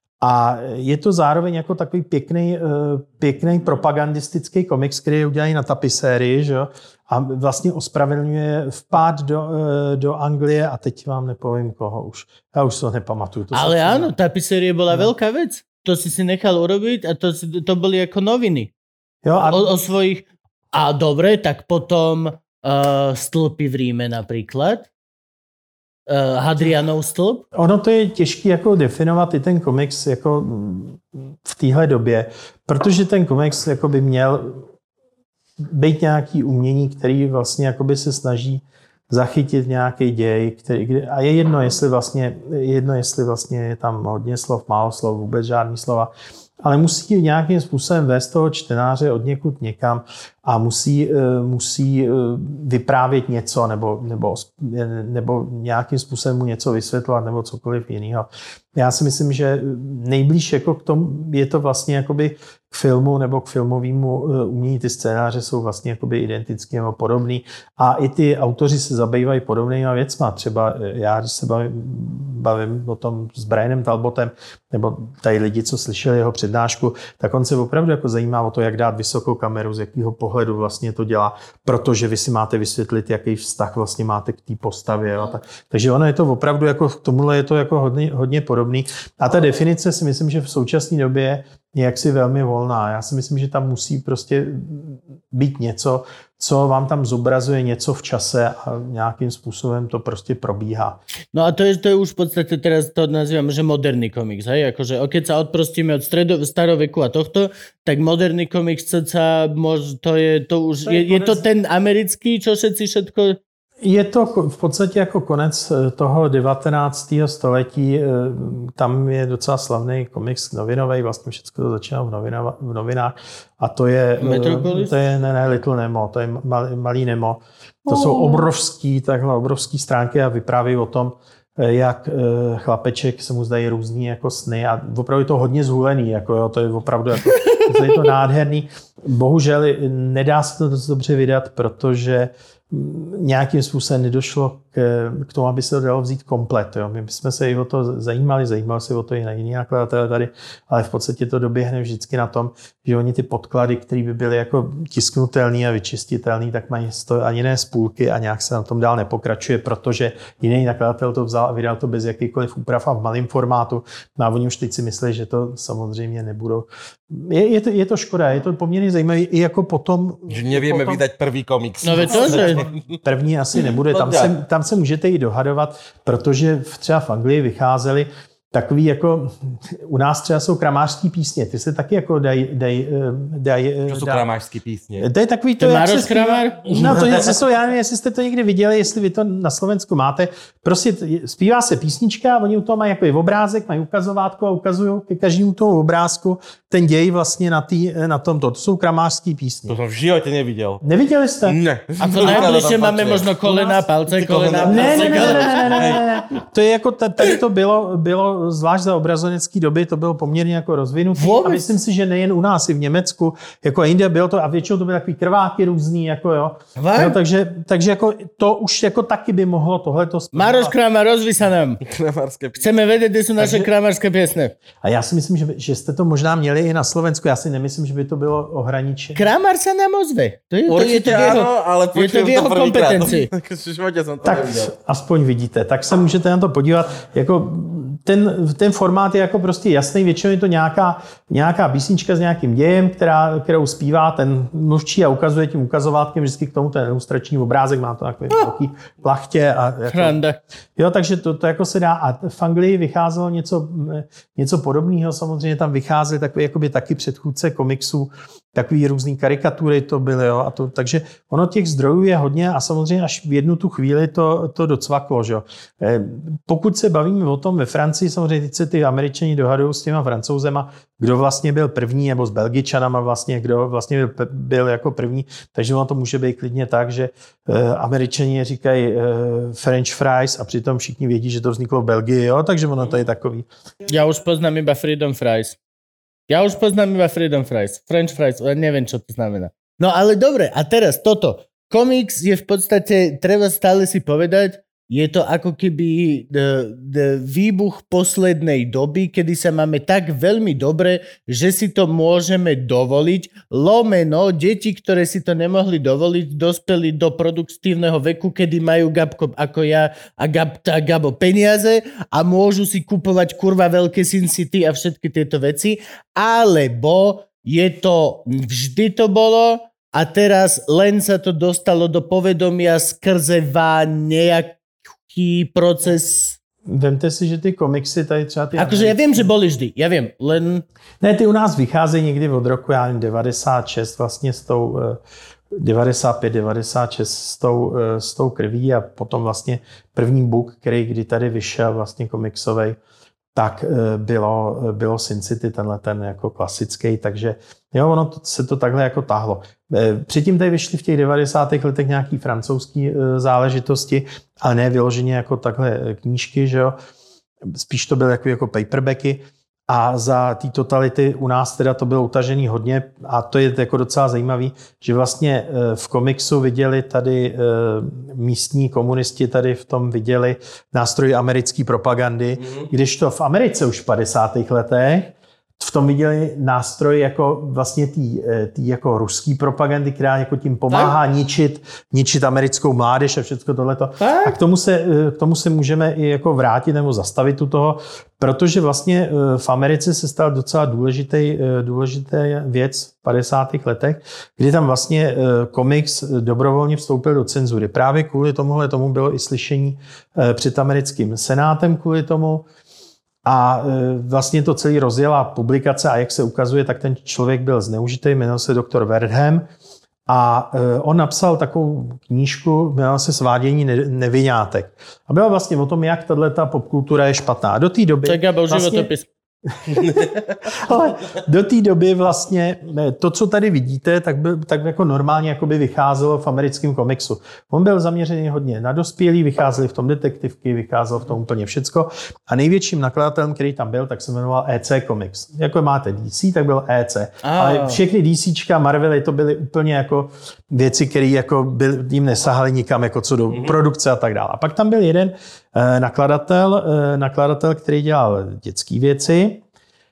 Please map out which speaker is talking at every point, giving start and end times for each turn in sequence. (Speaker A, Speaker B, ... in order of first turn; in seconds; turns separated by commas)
Speaker A: 0.2-14.1, Speaker B: 13.5-18.7, Speaker A: 19.2-19.7, Speaker B: 19.4-24.9, Speaker B: 26.1-27.4, Speaker A: 27.5-34.6, Speaker A: 35.6-46.1, Speaker A: 46.6-101.0, Speaker B: 101.3-113.4, Speaker A: 110.8-111.4, Speaker A: 113.8-171.0, Speaker B: 124.2-124.9, Speaker B: 127.9-128.5, Speaker C: 170.3-173.0, Speaker B: 171.8-172.7, Speaker A: 172.1-184.2, Speaker C: 173.8-174.3, Speaker C: 183.9-185.1, Speaker A: 185.0-199.8, Speaker B: 185.6-186.7, Speaker C: 186.7-187.3, Speaker C: 199.7-200.8, Speaker A: 200.8-201.6, Speaker C: 201.5-206.1, Speaker B: 202.0-206.0, Speaker A: 202.2-202.5, Speaker A: 204.6-220.7, Speaker B: 211.2-211.7, Speaker B: 216.8-217.2, Speaker B: 220.3-221.8, Speaker C: 221.8-222.7, Speaker B: 222.6-224.6, Speaker A: 223.4-223.7, Speaker A: 224.8-229.2, Speaker B: 229.2-233.3, Speaker C: 230.7-234.7, Speaker A: 234.2-250.2, Speaker B: 249.9-250.4, Speaker A: 250.8-283.5, Speaker B: 283.9-285.6, Speaker B: 286.3-326.4, Speaker A: 326.7-329.3, Speaker B: 328.6-330.6, Speaker A: 331.0-335.0, Speaker A: 335.6-342.8, Speaker A: 343.4-356.8, Speaker A: 357.4-402.4, Speaker C: 372.4-372.7, Speaker B: 384.0-384.4, Speaker A: 403.2-409.4, Speaker A: 410.1-418.9, Speaker B: 418.1-419.1, Speaker A: 419.5-449.4, Speaker B: 437.2-437.8, Speaker C: 443.3-443.6